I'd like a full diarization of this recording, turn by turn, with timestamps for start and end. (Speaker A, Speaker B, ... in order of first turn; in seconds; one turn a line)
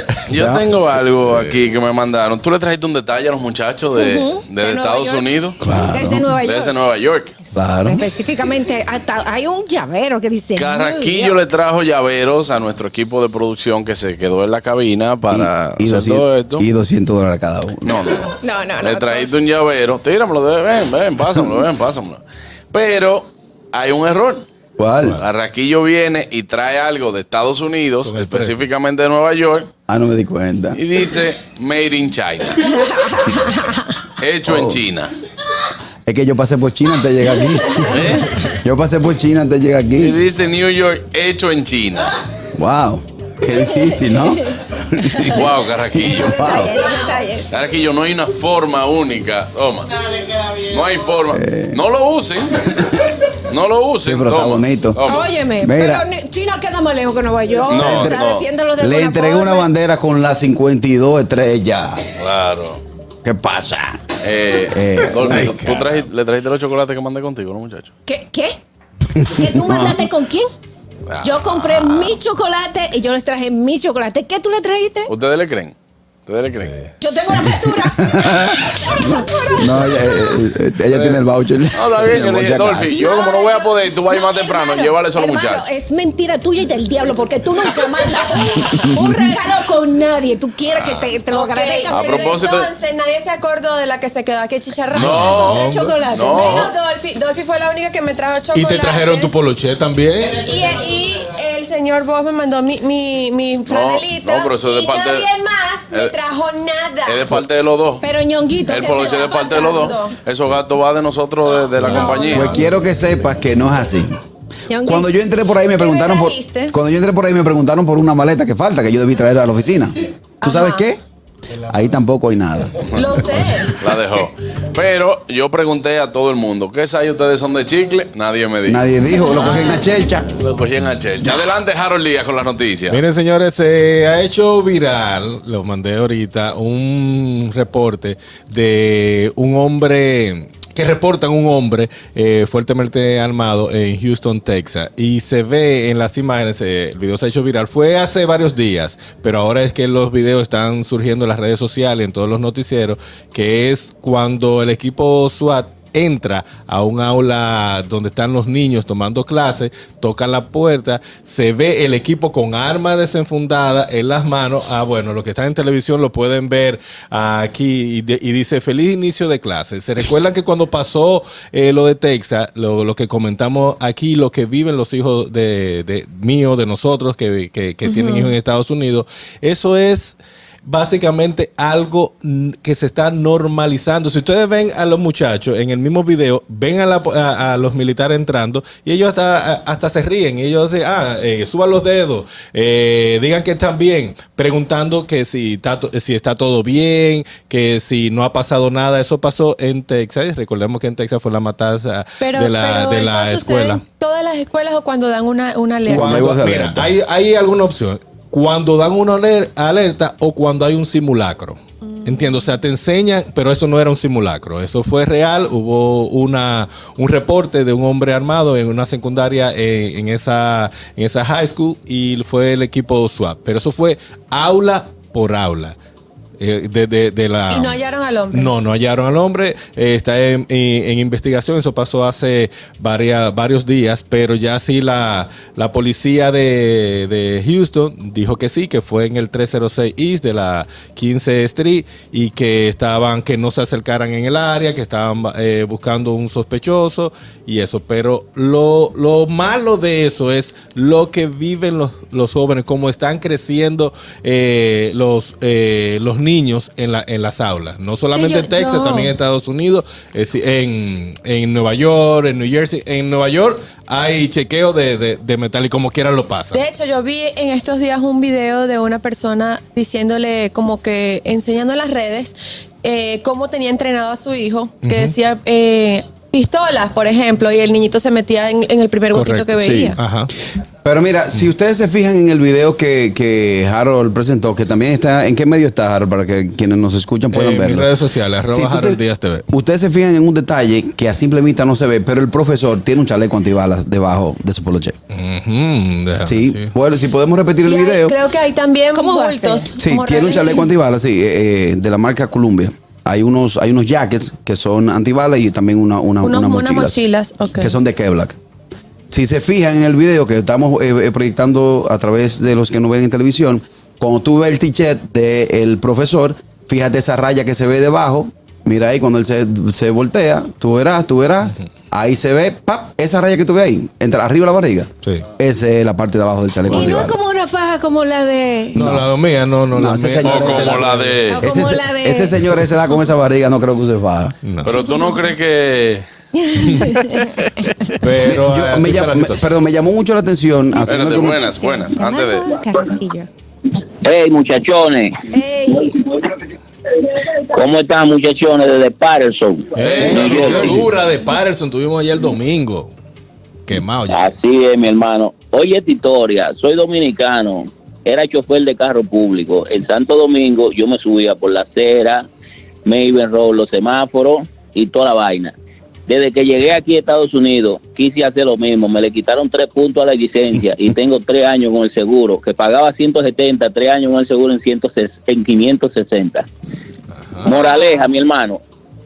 Speaker A: 0.2-5.6
Speaker B: 0.3-0.7
Speaker C: 1.2-1.6
Speaker D: 4.0-5.3
Speaker B: 5.6-6.3
Speaker D: 5.9-6.8
Speaker A: 6.4-7.3
Speaker B: 7.5-8.1
Speaker D: 7.8-11.4
Speaker A: 10.6-16.7
Speaker B: 15.3-18.2
Speaker A: 17.9-22.2
Speaker D: 18.4-19.3
Speaker A: 22.7-24.4
Speaker B: 24.8-25.2
Speaker A: 25.2-29.7
Speaker C: 28.1-28.6
Speaker B: 29.9-30.8
Speaker A: 30.8-32.7
Speaker D: 32.8-33.8
Speaker A: 34.2-35.1
Speaker B: 34.5-34.8
Speaker B: 36.1-40.2
Speaker A: 37.9-38.4
Speaker A: 40.0-42.1
Speaker B: 42.6-46.8
Speaker D: 45.0-45.3
Speaker A: 45.2-46.7
Speaker D: 46.0-47.5
Speaker A: 47.5-52.9
Speaker B: 51.3-51.8
Speaker A: 53.5-55.3
Speaker B: 54.0-55.0
Speaker D: 55.0-59.7
Speaker B: 55.6-56.0
Speaker B: 57.7-62.1
Speaker A: 57.7-58.5
Speaker A: 62.2-62.8
Speaker B: 63.2-64.1
Speaker A: 64.2-67.9
Speaker B: 64.7-65.9
Speaker D: 68.1-68.6
Speaker B: 69.2-70.0
Speaker D: 69.3-70.5
Speaker A: 71.1-72.1
Speaker D: 71.2-75.1
Speaker A: 75.1-75.7
Speaker A: 76.3-76.7
Speaker D: 77.0-80.0
Speaker B: 78.0-83.0
Speaker A: 80.9-81.2
Speaker A: 81.7-85.7
Speaker D: 82.9-92.3
Speaker E: 91.3-95.7
Speaker A: 91.9-92.7
Speaker A: 94.9-96.7
Speaker C: 94.9-96.6
Speaker D: 95.5-96.7
Speaker E: 96.2-99.3
Speaker C: 98.5-100.4
Speaker E: 100.4-107.4
Speaker A: 103.7-105.3
Speaker A: 107.1-108.0
Speaker D: 108.0-109.8
Speaker A: 108.7-112.6
Speaker E: 108.9-110.2
Speaker C: 111.8-112.6
Speaker E: 111.8-112.5
Speaker D: 111.9-112.3
Speaker B: 112.3-114.2
Speaker D: 114.7-115.1
Speaker B: 114.9-121.0
Speaker E: 115.8-116.8
Speaker E: 120.4-120.9
Speaker C: 121.6-122.0
Speaker B: 121.7-122.8
Speaker E: 122.9-123.8
Speaker A: 123.8-128.8
Speaker B: 128.7-130.3
Speaker A: 130.4-133.0
Speaker C: 132.9-203.8
Speaker D: 177.9-178.3
Speaker E: 202.2-206.4
Speaker B: 205.9-206.9
Speaker C: 205.9-225.8
Speaker E: 212.1-212.4
Speaker C: 226.4-227.8
Speaker E: 227.5-228.5
Speaker C: 228.3-266.6
Speaker E: 258.1-259.1
Speaker E: 266.5-280.0
Speaker C: 274.8-275.1
Speaker C: 279.1-280.3
Speaker B: 279.6-279.9
Speaker B: 280.8-287.9
Speaker C: 287.3-289.5
Speaker B: 288.5-295.0
Speaker C: 295.1-296.7
Speaker B: 296.3-298.2
Speaker E: 297.6-300.7
Speaker D: 298.9-299.8
Speaker B: 299.8-307.0
Speaker E: 306.2-307.8
Speaker B: 307.6-308.4
Speaker B: 309.1-327.2
Speaker D: 326.7-328.8
Speaker B: 328.8-329.1
Speaker C: 328.8-331.3
Speaker B: 329.7-334.4
Speaker A: 330.2-331.4
Speaker D: 331.3-332.4
Speaker C: 334.4-334.8
Speaker A: 334.6-336.1
Speaker D: 336.4-338.0
Speaker C: 338.0-339.4
Speaker B: 338.2-341.4
Speaker D: 340.7-343.3
Speaker A: 340.9-342.5
Speaker F: 344.0-345.3
Speaker D: 345.3-346.0
Speaker F: 347.4-350.6
Speaker C: 349.8-352.9
Speaker B: 349.9-350.9
Speaker C: 353.7-354.4
Speaker F: 354.1-362.3
Speaker F: 362.9-365.5
Speaker F: 366.1-376.5
Speaker C: 377.2-377.5
Speaker F: 377.4-378.6